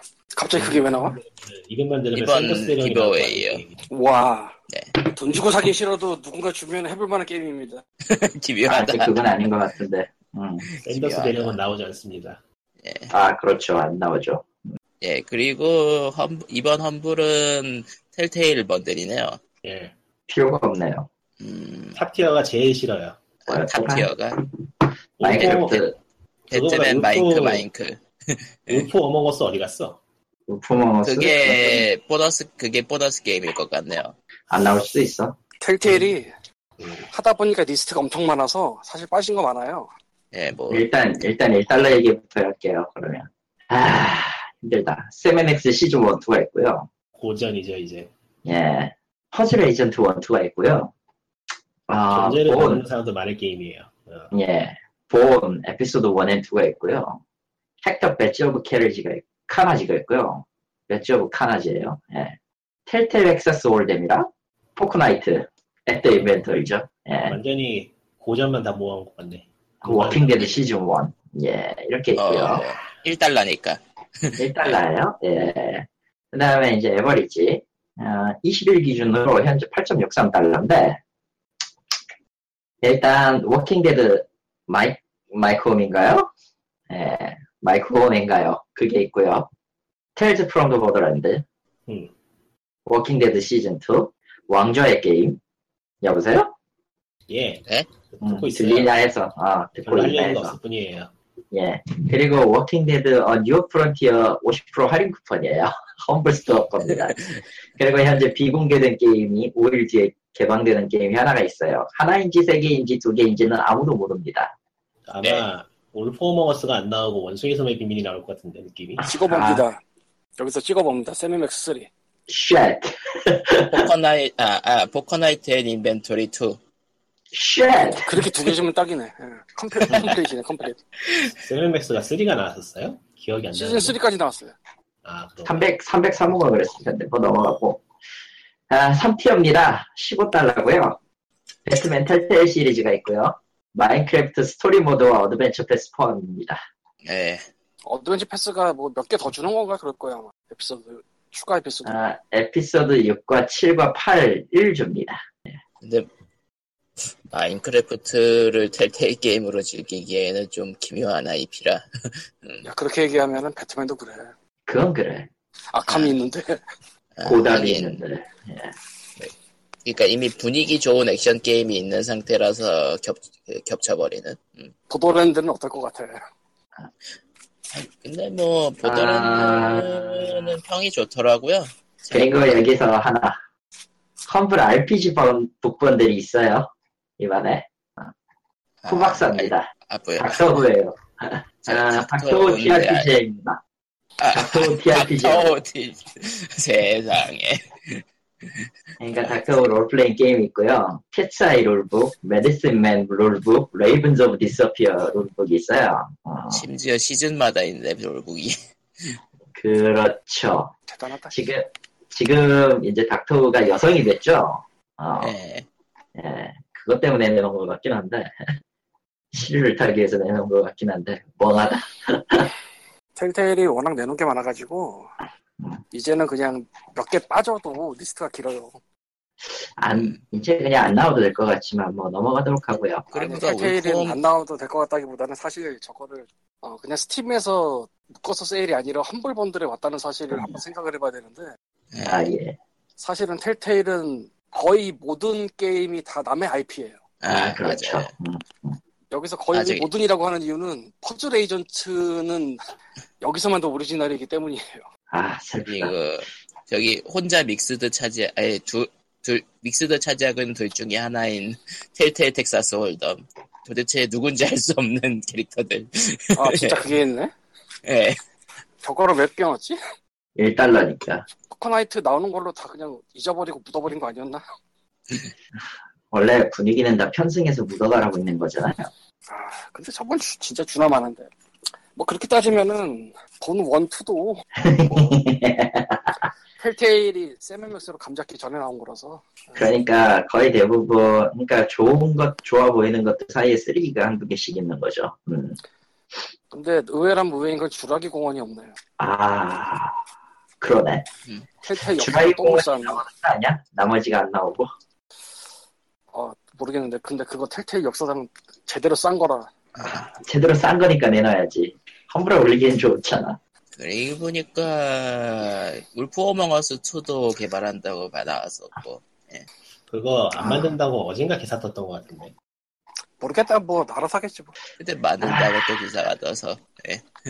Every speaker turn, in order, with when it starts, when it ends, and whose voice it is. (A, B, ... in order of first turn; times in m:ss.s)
0:00.4-0:01.2 A
0:00.5-0:03.9 B
0:02.2-0:03.6 C
0:03.9-0:07.8 A
0:04.7-0:05.0 C
0:08.1-0:09.2 C
0:08.7-0:10.6 D
0:10.7-0:11.6 C
0:10.8-0:12.4 B
0:12.8-0:13.1 C
0:13.1-0:14.5 D
0:15.0-0:19.4 C
0:19.6-0:19.9 B
0:20.3-0:21.1 D
0:21.4-0:22.0 C
0:22.0-0:23.2 B
0:23.5-0:24.4 C
0:23.5-0:24.5 D
0:25.2-0:25.8 B
0:25.2-0:26.0 D
0:25.3-0:25.8 C
0:26.5-0:27.7 B
0:26.5-0:28.9 C
0:28.7-0:30.0 B
0:30.5-0:31.9 D
0:31.0-0:34.2 C
0:34.5-0:35.4 D
0:35.6-0:36.3 A
0:35.8-0:36.1 B
0:36.8-0:37.1 B
0:37.1-0:39.9 A
0:40.3-0:40.9 C
0:40.7-0:46.9 D
0:47.2-0:48.1 B
0:48.4-0:50.9 D
0:51.9-0:52.8 D
0:52.1-0:54.3 B
0:54.3-0:57.2 D
0:57.8-1:02.4 D
1:02.9-1:07.4 D
1:07.3-1:10.5 B
1:09.8-1:12.6 D
1:12.2-1:14.8 C
1:14.4-1:21.0 D
1:22.8-1:26.3 D
1:26.9-1:29.5 D
1:30.2-1:31.4 D
1:31.9-1:32.1 B
1:32.9-1:35.4 D
1:36.0-1:36.5 D
1:37.3-1:38.9 B
1:38.2-1:40.6 D
1:39.8-1:41.1 B
1:41.5-1:47.2 D
1:47.8-1:54.5 D
1:55.1-1:59.0 B
1:59.0-1:59.6 D
1:59.0-1:59.8 A
2:00.4-2:01.9 A
2:02.3-2:03.9 D
2:03.7-2:06.6 C
2:07.3-2:08.5 D
2:08.0-2:10.8 A
2:11.3-2:14.0 B
2:13.5-2:14.6 A
2:15.0-2:15.7 B
2:15.4-2:17.8 D
2:18.7-2:21.0 D
2:21.6-2:26.6 D
2:27.0-2:27.5 C
2:27.8-2:31.9 A
2:31.8-2:35.5 D
2:35.8-2:36.1 C
2:37.3-2:42.7 C
2:42.6-2:44.3 A
2:44.7-2:45.3 D
2:45.7-2:46.6 A
2:45.8-2:46.2 C
2:47.2-2:48.0 C
2:47.2-2:48.8 D
2:49.8-2:54.7 C
2:54.9-2:56.2 A
2:57.7-3:02.5 C
2:58.8-3:00.6 D
3:02.1-3:03.4 D
3:04.2-3:08.1 D
3:08.8-3:10.5 C
3:08.9-3:13.6 D
3:11.6-3:13.1 C
3:14.2-3:18.0 C
3:14.3-3:15.6 D
3:19.0-3:26.6 D
3:26.5-3:29.2 C
3:29.5-3:30.7 D
3:30.9-3:31.5 A
3:31.3-3:35.3 D
3:35.2-3:35.7 C
3:36.2-3:38.5 D
3:39.3-3:42.5 D
3:43.2-3:45.1 A
3:45.9-3:48.8 A
3:49.6-3:53.1 D
3:49.9-3:50.2 C
3:53.1-3:54.2 C
3:53.2-4:01.5 A
4:00.3-4:00.6 D
4:01.9-4:02.3 C
4:02.0-4:02.6 D
4:03.0-4:07.0 A
4:07.2-4:08.1 C
4:07.3-4:08.8 D
4:09.1-4:12.6 A
4:09.5-4:09.9 C
4:13.2-4:14.9 A
4:15.1-4:15.9 D
4:15.7-4:26.8 C
4:26.4-4:27.3 A
4:27.8-4:28.2 C
4:28.8-4:29.8 A
4:30.4-4:31.3 D
4:31.5-4:34.4 A
4:36.1-4:38.9 D
4:39.3-4:41.3 A
4:42.0-4:45.2 A
4:44.6-4:46.3 D
4:46.6-4:49.7 A
4:49.6-4:55.6 D
4:56.5-4:58.8 A
4:59.0-5:00.0 D
5:00.6-5:01.1 D
5:01.6-5:03.0 A
5:01.8-5:04.7 D
5:06.1-5:09.5 A
5:09.8-5:10.1 C
5:10.1-5:13.4 D
5:13.8-5:19.5 C
5:19.9-5:22.3 B
5:20.4-5:20.8 D
5:23.2-5:24.5 A
5:24.8-5:27.1 C
5:25.2-5:25.6 D